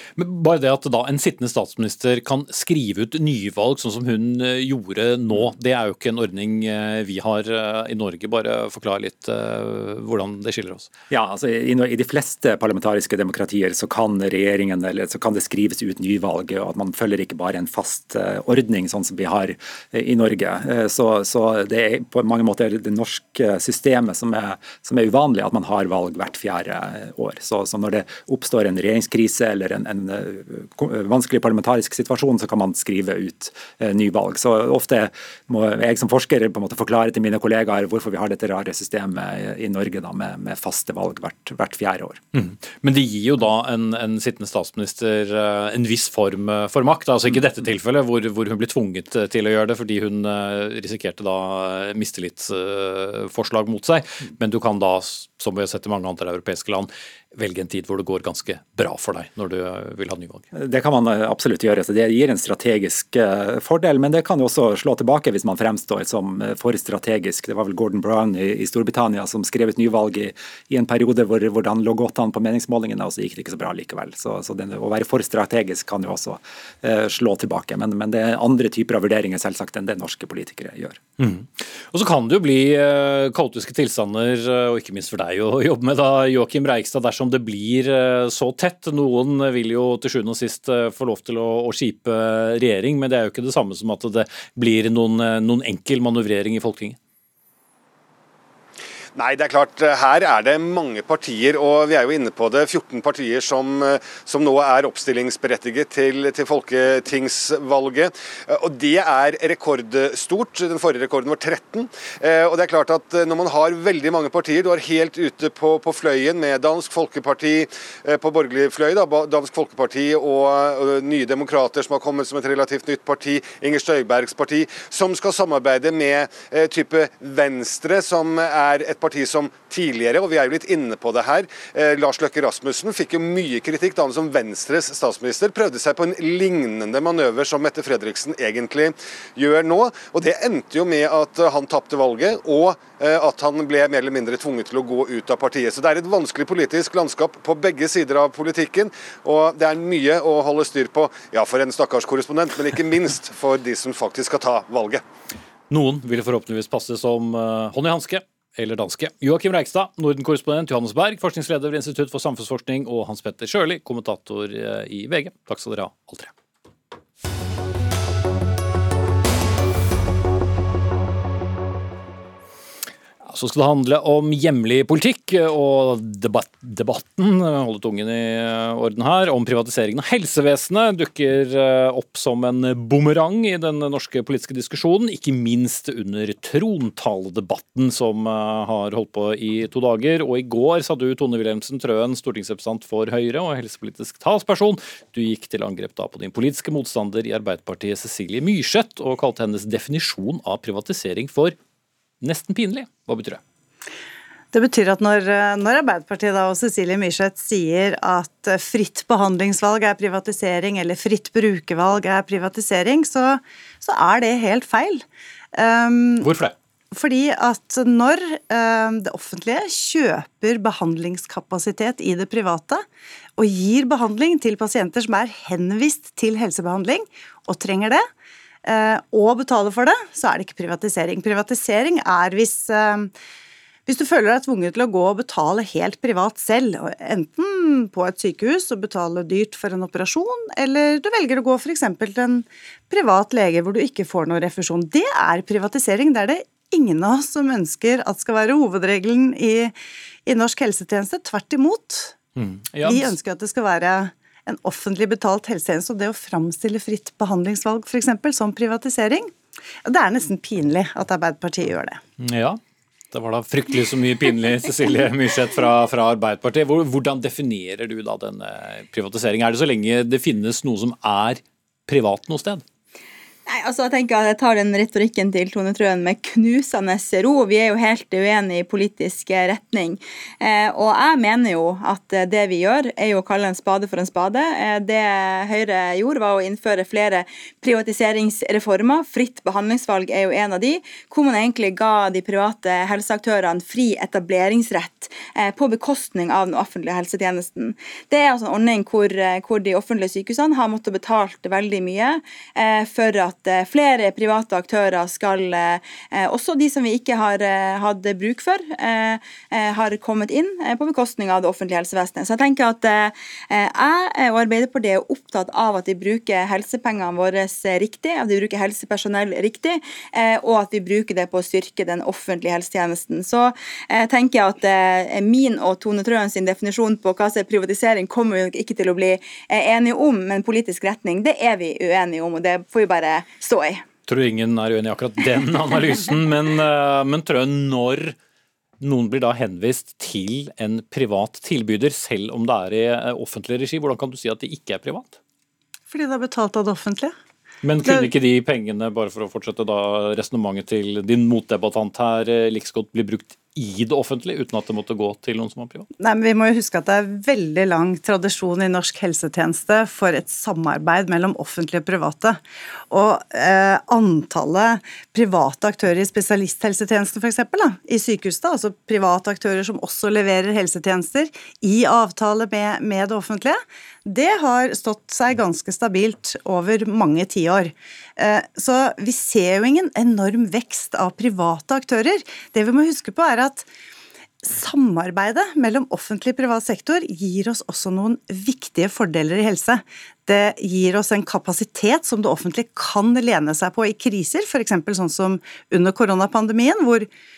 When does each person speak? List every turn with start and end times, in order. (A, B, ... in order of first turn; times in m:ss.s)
0:00.2-0:10.9 A
0:11.1-0:42.2 B
0:42.3-1:00.4 A
1:00.5-1:21.0 B
1:21.2-1:37.0 A
1:39.1-2:35.0 C
2:35.7-2:46.3 A
2:53.2-3:21.6 A
3:22.2-3:23.4 A
3:24.5-3:36.3 D
3:36.2-3:36.5 A
3:36.9-3:42.8 D
3:43.4-3:48.0 D
3:48.6-3:53.1 D
3:53.8-4:12.2 D
4:12.4-4:13.1 A
4:12.8-4:19.3 D
4:19.8-4:22.0 D
4:22.2-4:22.6 A
4:23.1-4:32.6 A
4:33.5-5:33.8 E
5:34.1-5:38.2 A
5:38.8-5:45.2 A
5:45.9-5:47.1 D
5:47.6-5:55.9 A
5:47.8-5:48.1 D
5:56.0-6:23.7 D
6:24.4-6:37.1 D